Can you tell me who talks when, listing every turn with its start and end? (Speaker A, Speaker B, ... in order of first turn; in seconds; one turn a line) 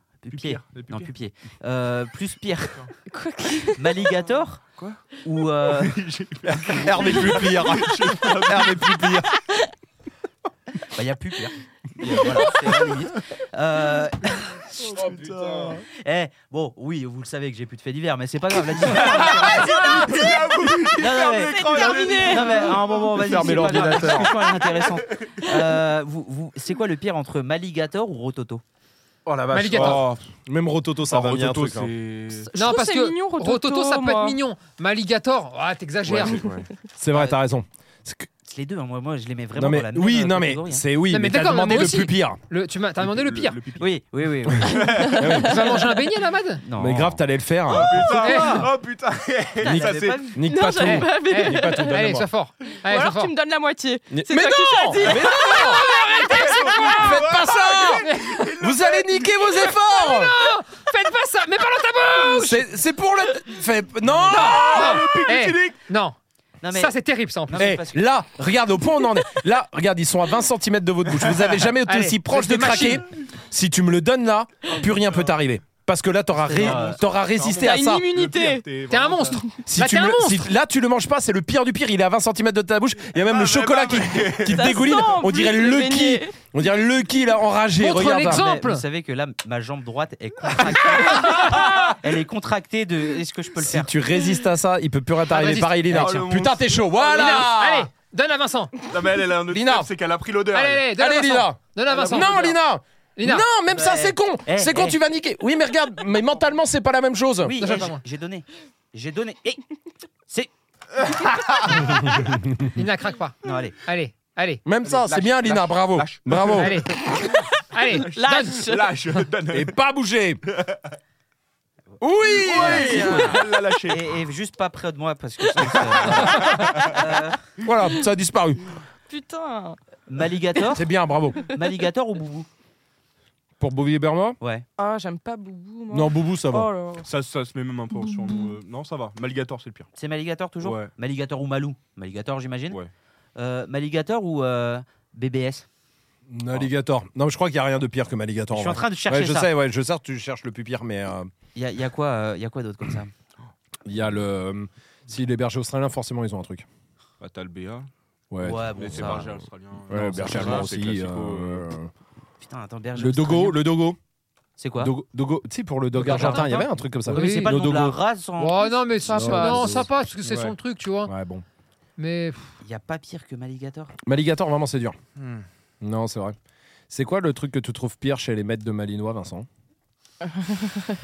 Speaker A: 0.2-2.9
Speaker B: 0.3-1.1
Speaker C: 3.1-3.9
Speaker A: 3.8-4.6
Speaker B: 4.7-5.0
Speaker A: 5.2-6.0
Speaker B: 5.6-9.0
Speaker D: 6.4-9.3
Speaker A: 10.8-15.1
Speaker B: 12.0-12.9
Speaker B: 14.8-15.8
Speaker D: 14.9-15.8
Speaker A: 15.9-28.6
Speaker B: 18.8-24.3
Speaker C: 19.5-19.9
Speaker D: 20.2-20.9
Speaker C: 21.4-22.7
Speaker D: 21.5-22.3
Speaker D: 23.1-24.3
Speaker B: 24.8-25.3
Speaker D: 29.2-31.9
Speaker E: 29.5-30.0
Speaker B: 29.7-30.2
Speaker B: 31.1-32.5
Speaker C: 32.5-34.4
Speaker E: 32.5-36.5
Speaker B: 36.0-36.7
Speaker D: 37.0-38.3
Speaker A: 38.4-40.8
Speaker D: 39.5-42.4
Speaker E: 41.1-43.6
Speaker B: 43.0-44.0
Speaker A: 43.8-44.8
Speaker B: 44.6-45.4
Speaker C: 44.8-45.9
Speaker D: 45.1-45.8
Speaker E: 45.4-46.6
Speaker A: 46.6-48.7
Speaker D: 46.8-48.3
Speaker B: 47.7-50.4
Speaker E: 48.2-48.7
Speaker D: 49.6-52.3
Speaker C: 49.6-52.0
Speaker A: 49.9-50.1
Speaker E: 50.8-53.3
Speaker C: 52.7-56.1
Speaker D: 54.1-56.0
Speaker B: 55.0-59.7
Speaker E: 55.6-57.3
Speaker D: 56.5-60.5
Speaker E: 58.0-58.5
Speaker E: 59.9-62.6
Speaker D: 62.3-65.5
Speaker B: 64.1-65.8
Speaker E: 64.3-66.2
Speaker A: 66.6-68.1
Speaker E: 66.7-67.7
Speaker D: 67.5-78.1
Speaker E: 71.8-73.0
Speaker A: 76.4-77.0
Speaker B: 76.5-79.4
Speaker C: 77.6-78.7
Speaker E: 78.9-80.5
Speaker D: 79.7-88.5
Speaker B: 83.2-84.9
Speaker C: 84.4-86.3
Speaker E: 87.8-88.8
Speaker A: 88.2-93.9
Speaker E: 91.2-91.6
Speaker D: 93.6-97.9
Speaker E: 95.3-96.1
Speaker B: 95.9-97.5
Speaker E: 97.1-98.8
Speaker B: 98.9-101.0
Speaker D: 99.5-99.9
Speaker E: 100.5-102.6
Speaker D: 100.9-107.5
Speaker B: 101.9-102.3
Speaker E: 103.2-103.4
Speaker A: 103.7-105.0
Speaker A: 107.4-109.6
Speaker E: 107.6-108.0
Speaker B: 111.2-111.8
Speaker D: 111.8-112.4
Speaker E: 112.7-114.6
Speaker A: 113.4-113.8
Speaker D: 114.6-116.8
Speaker B: 114.8-116.7
Speaker E: 116.5-117.0
Speaker C: 117.1-118.9
Speaker E: 117.7-118.7
Speaker B: 117.9-119.8
Speaker D: 119.5-120.4
Speaker B: 120.5-120.8
Speaker D: 122.0-123.4
Speaker B: 122.3-124.1
Speaker A: 122.4-127.4
Speaker B: 125.8-126.6
Speaker C: 126.4-127.0
Speaker D: 127.6-128.8
Speaker C: 129.1-129.8
Speaker A: 130.1-130.9
Speaker D: 130.7-131.4
Speaker A: 131.4-132.5
Speaker D: 133.6-134.4
Speaker C: 134.8-137.1
Speaker D: 135.9-136.7
Speaker B: 137.0-139.9
Speaker C: 138.2-138.5
Speaker A: 139.9-142.8
Speaker B: 140.6-140.9
Speaker A: 143.4-145.7
Speaker D: 146.3-151.3
Speaker A: 148.5-149.5
Speaker A: 151.5-153.1
Speaker D: 153.8-156.7
Speaker B: 157.2-157.9
Speaker D: 158.3-159.0
Speaker A: 158.4-160.7
Speaker B: 158.4-161.7
Speaker D: 159.9-161.9
Speaker A: 162.4-163.6
Speaker D: 162.9-164.0
Speaker A: 164.6-164.9
Speaker D: 164.8-167.9
Speaker A: 166.0-169.1
Speaker E: 167.1-167.7
Speaker E: 168.4-171.1
Speaker D: 169.1-169.9
Speaker C: 169.1-169.7
Speaker B: 170.2-170.5
Speaker D: 171.1-171.4
Speaker E: 172.0-172.5
Speaker A: 172.6-173.9
Speaker D: 174.0-175.0
Speaker B: 175.2-175.4
Speaker D: 175.8-176.3
Speaker D: 176.9-179.5
Speaker C: 180.6-180.8